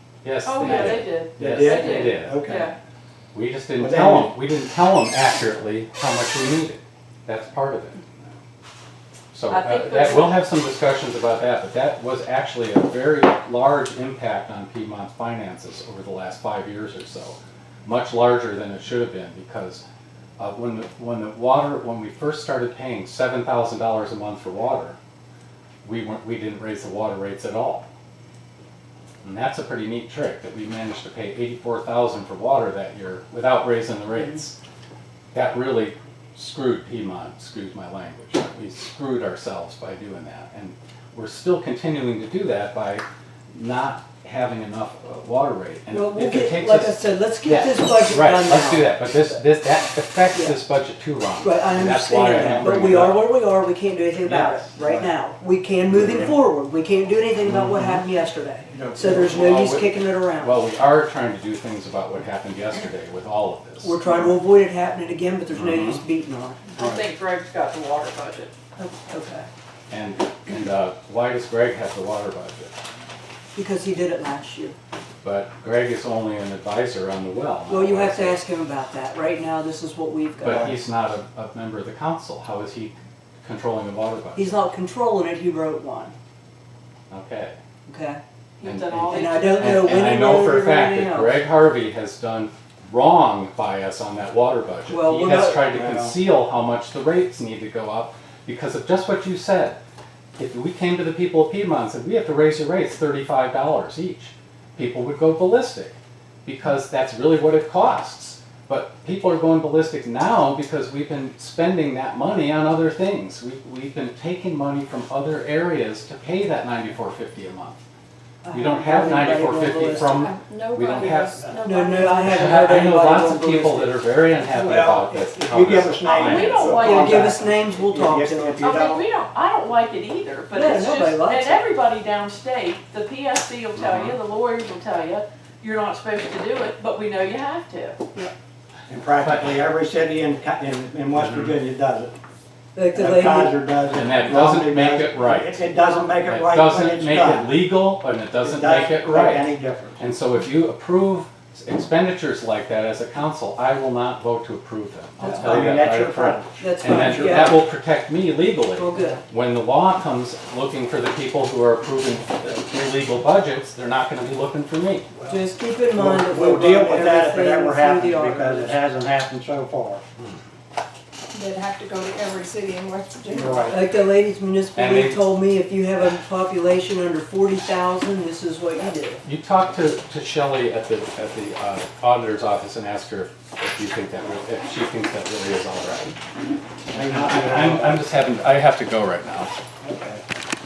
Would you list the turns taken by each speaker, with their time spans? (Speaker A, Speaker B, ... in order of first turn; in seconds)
Speaker A: 0.2-2.4, 3.3-8.1, 9.3-19.8, 20.4-25.0, 25.8-27.9, 29.2-34.5, 35.3-53.3, 57.7-58.0, 59.2-64.0, 65.5-66.0, 69.9-72.7, 75.2-78.4, 80.4-84.6, 87.1-87.5, 88.6-99.8, 100.3-117.8, 118.5-121.4, 122.2-126.9, 133.7-134.2, 139.2-139.6, 141.1-141.6, 143.9-145.7, 146.2-165.1, 174.7-175.3, 179.2-186.2, 186.9-189.5
Speaker B: 0.4-2.8, 9.5-10.4, 66.8-68.5, 88.6-90.2, 126.1-127.4, 128.6-138.0
Speaker C: 0.6-2.7, 3.8-4.3, 52.4-52.9, 54.2-55.1, 55.9-56.3, 58.7-59.4, 95.7-96.2, 121.0-121.6, 124.5-129.0, 138.9-142.1, 142.9-147.6, 148.4-150.1, 155.2-157.6, 165.1-170.0, 173.3-173.8, 186.9-188.0, 189.8-190.2
Speaker D: 45.9-49.4, 50.3-50.6, 51.4-60.6, 63.8-66.7, 68.8-69.5, 73.5-74.8, 77.7-80.8, 84.3-86.1, 87.8-88.2, 89.1-91.4, 94.9-95.6, 118.4-120.3, 121.6-124.0, 126.7-128.6, 130.5-131.6, 142.7-143.6, 155.2-155.7, 156.6-157.6, 158.7-159.2, 165.3-168.8, 173.6-179.2
Speaker E: 119.9-122.5, 171.3-173.7